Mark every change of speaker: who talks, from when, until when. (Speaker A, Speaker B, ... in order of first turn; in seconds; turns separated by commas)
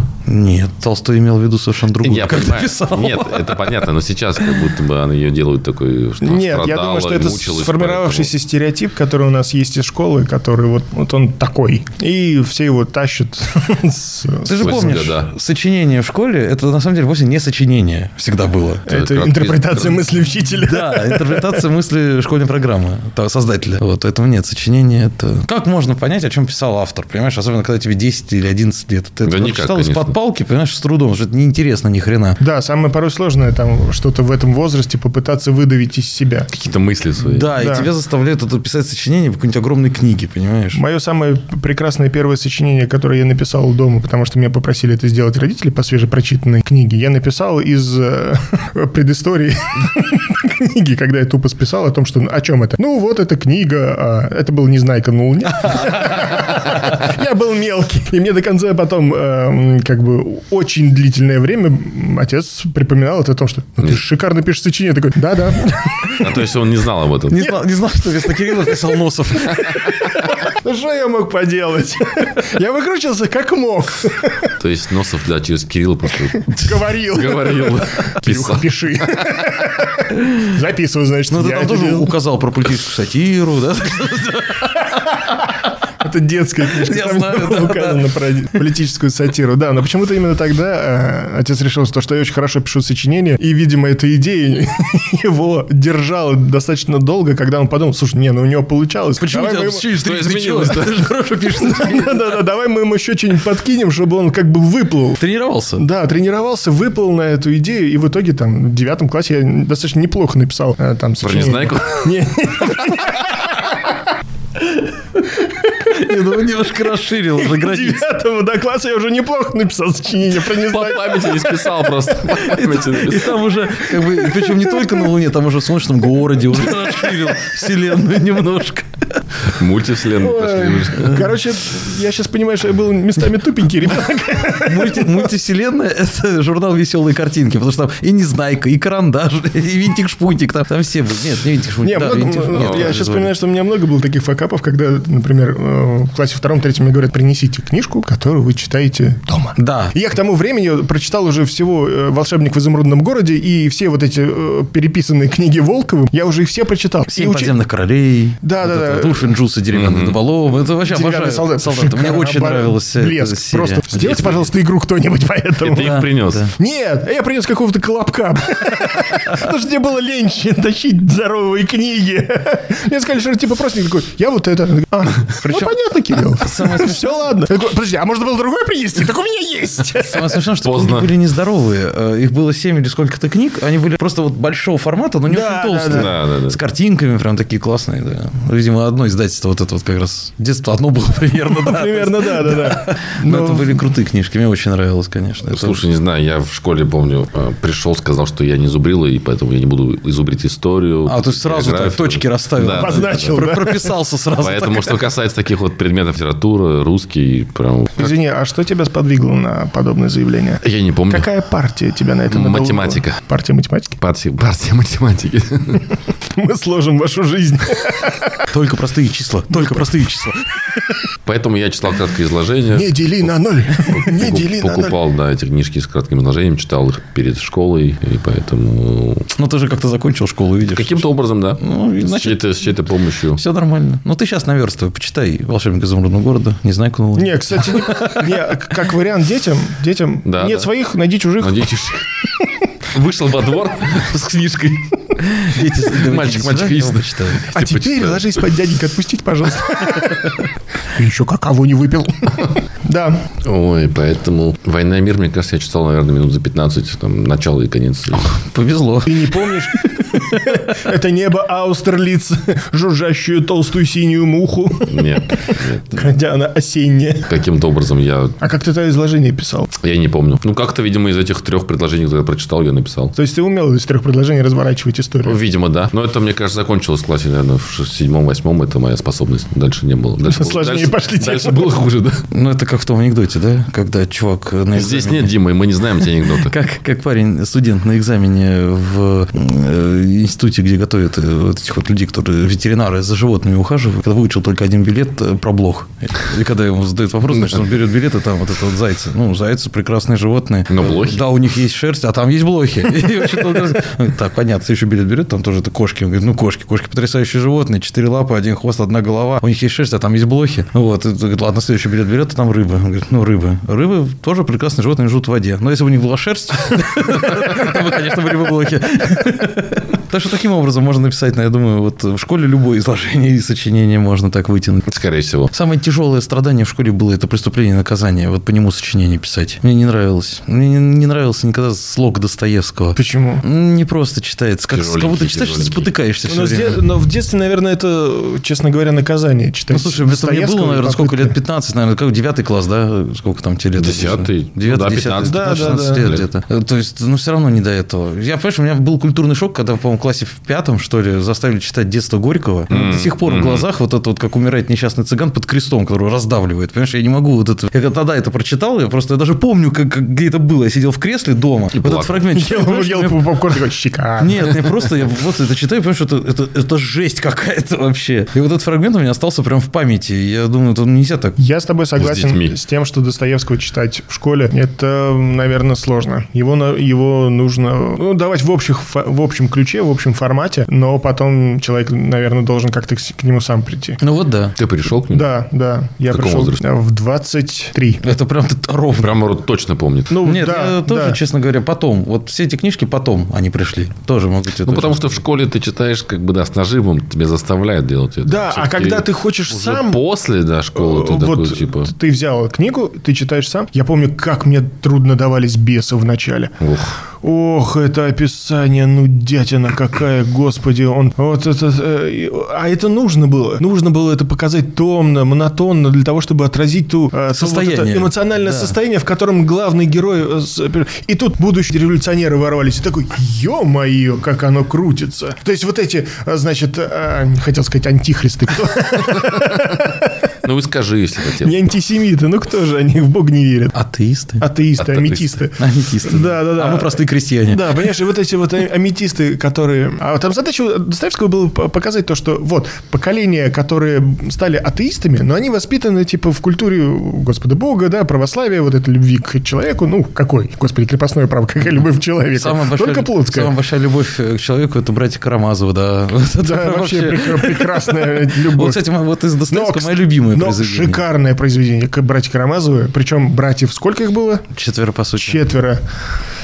Speaker A: 0.3-3.7, Speaker B: 2.0-8.3, Speaker C: 6.2-15.0, Speaker A: 14.4-18.9, Speaker B: 14.6-15.3, Speaker B: 18.9-20.1, Speaker C: 18.9-21.7, Speaker A: 20.6-32.4, Speaker B: 29.2-30.1, Speaker C: 32.4-36.5, Speaker B: 36.5-37.5, Speaker A: 37.2-40.8, Speaker C: 37.5-37.9, Speaker C: 40.7-66.5, Speaker A: 55.8-56.1, Speaker B: 66.2-67.5, Speaker A: 67.3-69.8, Speaker C: 67.4-74.5, Speaker B: 74.6-79.5, Speaker C: 76.5-82.2, Speaker A: 81.3-85.7, Speaker C: 86.0-99.9, Speaker A: 86.7-88.1, Speaker A: 99.2-102.2, Speaker B: 99.9-101.1, Speaker C: 101.6-105.2, Speaker A: 105.2-105.8, Speaker C: 105.8-114.1, Speaker B: 111.2-112.2, Speaker C: 115.4-116.2, Speaker A: 115.8-118.1, Speaker C: 117.3-122.4, Speaker B: 120.4-123.4, Speaker A: 122.4-129.2, Speaker C: 124.0-125.1, Speaker C: 126.6-127.4, Speaker B: 129.4-131.3, Speaker C: 130.2-135.3, Speaker A: 134.5-143.3, Speaker C: 141.8-157.6, Speaker B: 142.6-142.9, Speaker A: 149.6-149.9, Speaker A: 157.1-164.3, Speaker C: 158.4-159.3, Speaker B: 159.7-160.2, Speaker C: 160.8-180.4, Speaker B: 163.9-164.4, Speaker B: 165.6-166.4, Speaker A: 165.7-166.5, Speaker A: 175.4-175.8, Speaker A: 176.3-177.3, Speaker A: 180.0-195.8, Speaker B: 180.6-181.1, Speaker C: 185.3-186.1, Speaker B: 185.9-186.6, Speaker C: 191.5-193.9, Speaker B: 195.5-203.4, Speaker A: 201.1-205.0, Speaker C: 202.7-204.0, Speaker B: 204.4-208.1, Speaker C: 208.0-214.0, Speaker B: 210.6-211.3, Speaker B: 212.3-213.2, Speaker B: 214.0-215.9, Speaker C: 216.2-218.5, Speaker A: 218.5-220.6, Speaker C: 219.5-219.8, Speaker B: 221.2-229.3, Speaker C: 222.7-224.9, Speaker A: 229.3-232.4, Speaker B: 230.8-233.4, Speaker A: 233.3-238.5, Speaker C: 237.2-241.8, Speaker B: 240.3-240.7, Speaker B: 241.4-242.2, Speaker B: 242.9-248.4, Speaker A: 245.2-247.4, Speaker C: 247.5-253.3, Speaker B: 253.4-258.4, Speaker A: 258.2-260.5, Speaker C: 259.1-267.4, Speaker B: 264.9-266.1, Speaker B: 267.3-268.4, Speaker C: 268.4-269.7, Speaker B: 269.8-273.1, Speaker C: 273.1-275.4, Speaker B: 275.2-282.2, Speaker C: 280.2-281.8, Speaker A: 282.3-285.3, Speaker B: 284.7-286.6, Speaker A: 286.4-324.9, Speaker B: 300.7-301.2, Speaker B: 324.9-325.5, Speaker A: 325.5-336.8, Speaker C: 333.0-333.4, Speaker B: 334.7-335.9, Speaker C: 336.3-341.4, Speaker A: 339.7-363.4, Speaker B: 343.8-346.2, Speaker C: 345.1-346.1, Speaker B: 352.7-353.7, Speaker B: 361.8-362.2, Speaker C: 362.3-364.8, Speaker A: 364.2-371.4, Speaker C: 371.4-384.0, Speaker B: 372.0-372.6, Speaker A: 384.0-384.6, Speaker B: 384.6-385.3, Speaker C: 385.1-388.0, Speaker B: 386.1-386.6, Speaker A: 388.0-389.2, Speaker B: 389.0-390.2, Speaker C: 390.1-391.2, Speaker A: 390.2-395.1, Speaker B: 394.6-401.9, Speaker C: 398.2-400.0, Speaker C: 400.8-406.6, Speaker B: 406.6-406.9, Speaker C: 407.2-430.2, Speaker A: 417.3-418.8, Speaker B: 429.2-429.8, Speaker B: 430.4-431.6, Speaker C: 431.4-433.8, Speaker A: 433.7-434.5, Speaker C: 434.4-453.5, Speaker B: 434.8-435.4, Speaker A: 435.6-437.9, Speaker A: 452.3-461.0, Speaker C: 456.4-458.9, Speaker C: 459.5-464.4, Speaker A: 464.5-465.4, Speaker C: 465.2-465.9